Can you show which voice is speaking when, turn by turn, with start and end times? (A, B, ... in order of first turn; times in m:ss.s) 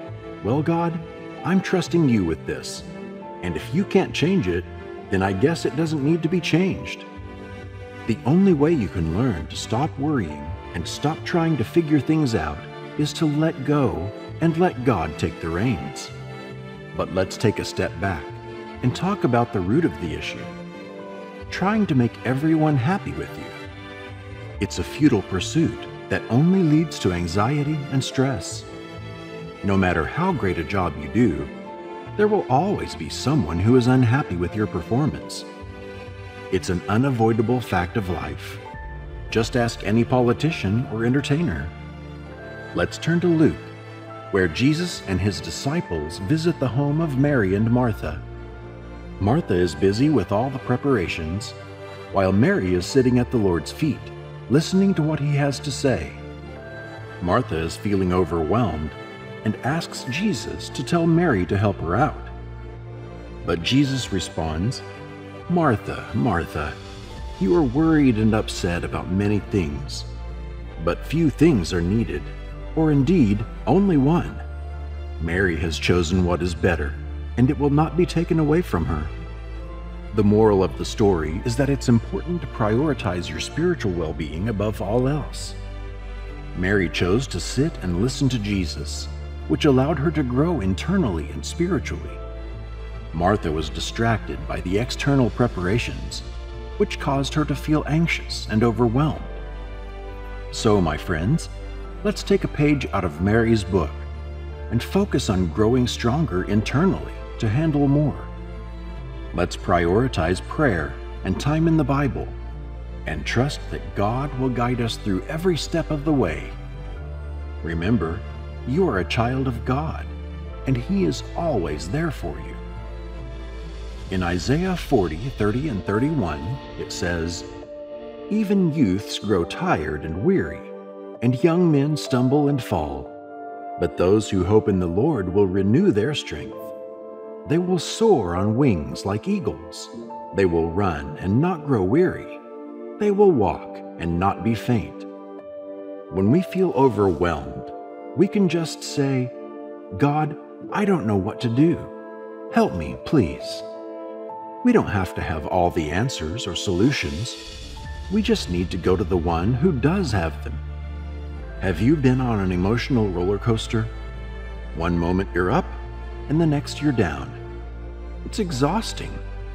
0:00.4-0:02.8 A
0:03.4-0:07.1 A
0:08.0-0:16.1 A
0:16.9-0:20.5 A
0:21.5-0:23.6 A
0:24.6-0:28.7 A
0:29.6-0:31.5 A
0:32.2-0:35.5 A
0:36.5-0:38.6 A
0:39.3-0:41.7 A
0:42.7-0:43.7 A
0:44.3-0:48.2 A
0:49.2-0:51.6 A
0:52.1-0:56.2 A
0:57.2-1:02.3 A
1:03.4-1:04.8 A
1:05.5-1:06.8 A
1:07.4-1:10.1 A
1:10.8-1:14.4 A
1:15.2-1:19.1 A
1:20.1-1:25.6 A
1:26.5-1:32.2 A
1:33.1-1:36.3 A
1:36.8-1:39.4 A
1:40.5-1:41.5 A
1:42.0-1:44.1 A
1:44.7-1:48.3 A
1:49.3-1:52.4 A
1:53.0-1:56.5 A
1:57.6-2:00.1 A
2:00.6-2:02.6 A
2:04.1-2:07.5 A
2:08.3-2:13.1 A
2:13.8-2:16.7 A
2:17.4-2:22.4 A
2:23.0-2:25.1 A
2:26.1-2:29.3 A
2:29.9-2:31.9 A
2:32.5-2:33.6 A
2:34.6-2:37.4 A
2:38.1-2:40.6 A
2:41.6-2:43.9 A
2:44.7-2:47.4 A
2:48.2-2:49.2 A